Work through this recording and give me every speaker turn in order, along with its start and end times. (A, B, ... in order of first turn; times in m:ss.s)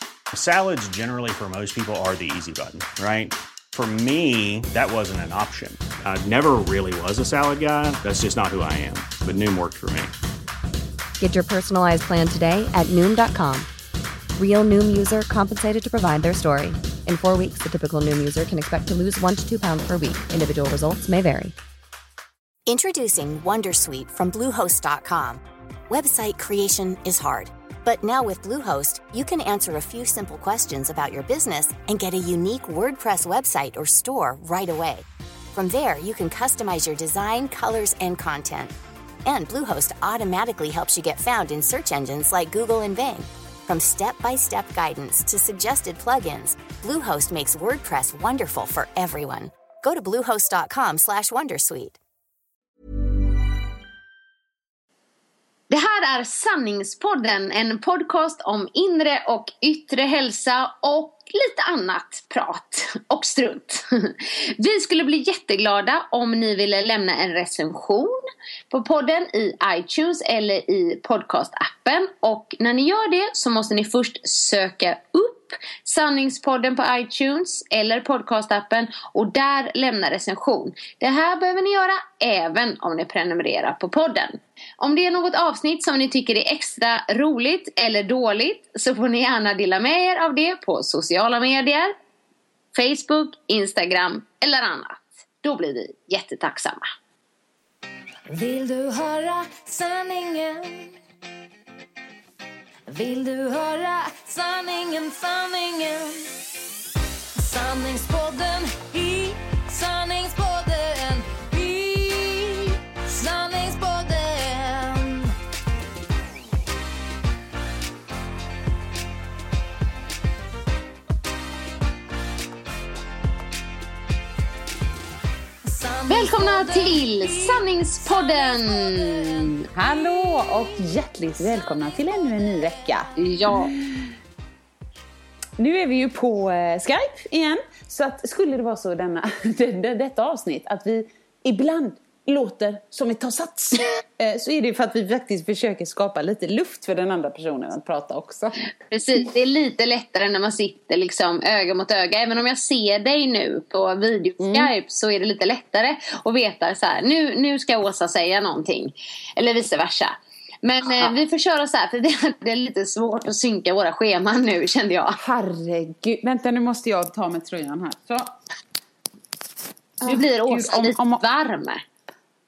0:00.3-0:10.1 A
0:11.2-0:13.7 B
0:14.4-0:21.5 B
0:22.6-0:38.7 C
0:39.2-0:52.0 C
0:55.7-1:08.2 D
1:08.7-1:31.9 D
1:32.7-1:36.8 D
1:38.3-1:40.9 E
1:42.9-1:46.3 E
1:47.4-1:55.3 E
2:05.6-2:09.5 E
2:06.1-2:09.6 D
2:09.7-2:14.1 F
2:13.2-2:13.7 D
2:15.6-2:28.6 F
2:28.9-2:45.2 D
2:34.4-2:34.7 F
2:45.2-2:48.3 F
2:50.0-2:51.8 D
2:50.0-2:51.2 F